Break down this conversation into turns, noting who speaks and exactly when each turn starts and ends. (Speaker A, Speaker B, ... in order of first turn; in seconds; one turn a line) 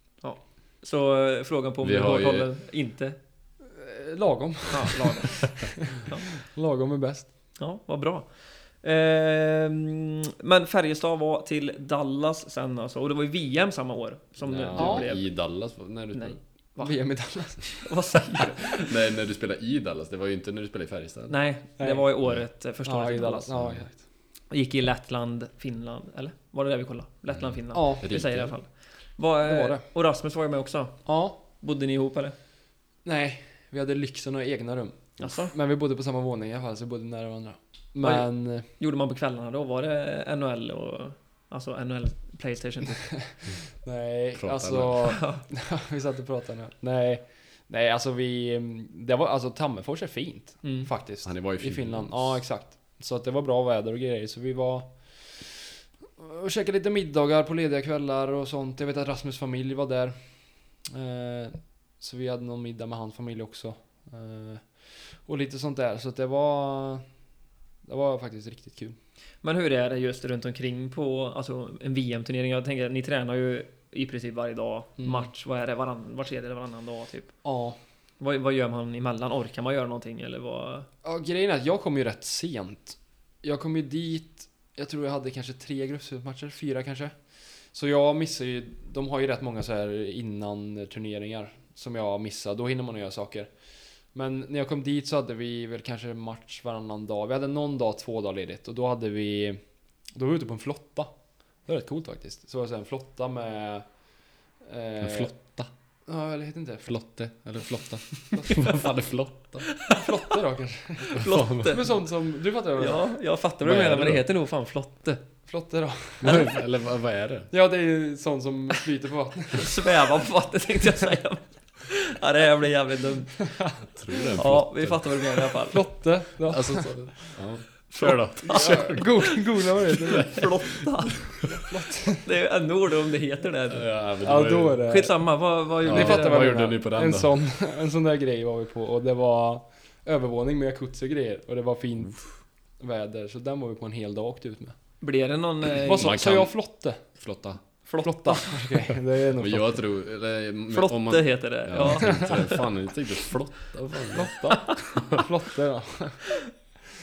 Speaker A: 0.2-3.2
Speaker B: 1.8-2.5
Speaker C: 3.7-7.3
Speaker A: 4.7-5.5
Speaker A: 7.6-15.3
Speaker B: 14.4-16.4
Speaker C: 14.8-15.1
Speaker A: 16.1-17.0
Speaker C: 16.8-18.0
Speaker A: 17.8-18.9
Speaker B: 18.8-21.4
Speaker A: 21.3-23.5
Speaker C: 21.8-22.1
Speaker C: 22.8-24.0
Speaker A: 24.5-32.4
Speaker B: 27.3-28.5
Speaker C: 27.7-28.1
Speaker C: 29.4-29.8
Speaker C: 31.1-31.4
Speaker C: 33.0-38.7
Speaker A: 35.2-35.5
Speaker A: 38.0-43.1
Speaker C: 43.2-60.2
Speaker B: 44.4-45.1
Speaker A: 45.0-45.4
Speaker A: 50.6-50.9
Speaker B: 51.2-52.4
Speaker C: 60.9-67.0
Speaker C: 67.8-69.0
Speaker A: 69.4-77.3
Speaker C: 75.0-75.3
Speaker C: 77.4-77.8
Speaker A: 78.2-80.9
Speaker C: 81.0-87.2
Speaker C: 87.7-93.5
Speaker C: 94.1-99.6
Speaker C: 100.2-101.1
Speaker C: 101.7-103.9
Speaker C: 104.6-105.4
Speaker B: 105.0-105.7
Speaker C: 106.1-107.0
Speaker B: 106.9-109.7
Speaker C: 108.3-108.7
Speaker C: 109.9-113.2
Speaker A: 111.1-111.9
Speaker B: 111.2-111.8
Speaker A: 112.8-115.2
Speaker B: 113.6-114.2
Speaker C: 115.5-116.6
Speaker B: 116.2-117.5
Speaker C: 117.5-119.9
Speaker A: 119.5-123.7
Speaker B: 123.8-125.5
Speaker A: 124.4-125.9
Speaker C: 125.7-127.4
Speaker B: 126.5-129.5
Speaker A: 127.9-129.3
Speaker C: 128.4-130.6
Speaker B: 130.1-130.5
Speaker A: 130.1-131.4
Speaker C: 131.4-132.3
Speaker A: 132.2-133.9
Speaker B: 133.7-134.8
Speaker C: 134.2-135.2
Speaker A: 134.9-136.5
Speaker C: 135.8-144.8
Speaker B: 135.8-137.4
Speaker A: 145.0-146.1
Speaker C: 145.8-147.0
Speaker B: 146.0-147.6
Speaker A: 147.9-148.6
Speaker C: 148.0-149.8
Speaker B: 149.4-155.2
Speaker A: 150.7-152.6
Speaker C: 154.1-156.3
Speaker A: 154.4-154.8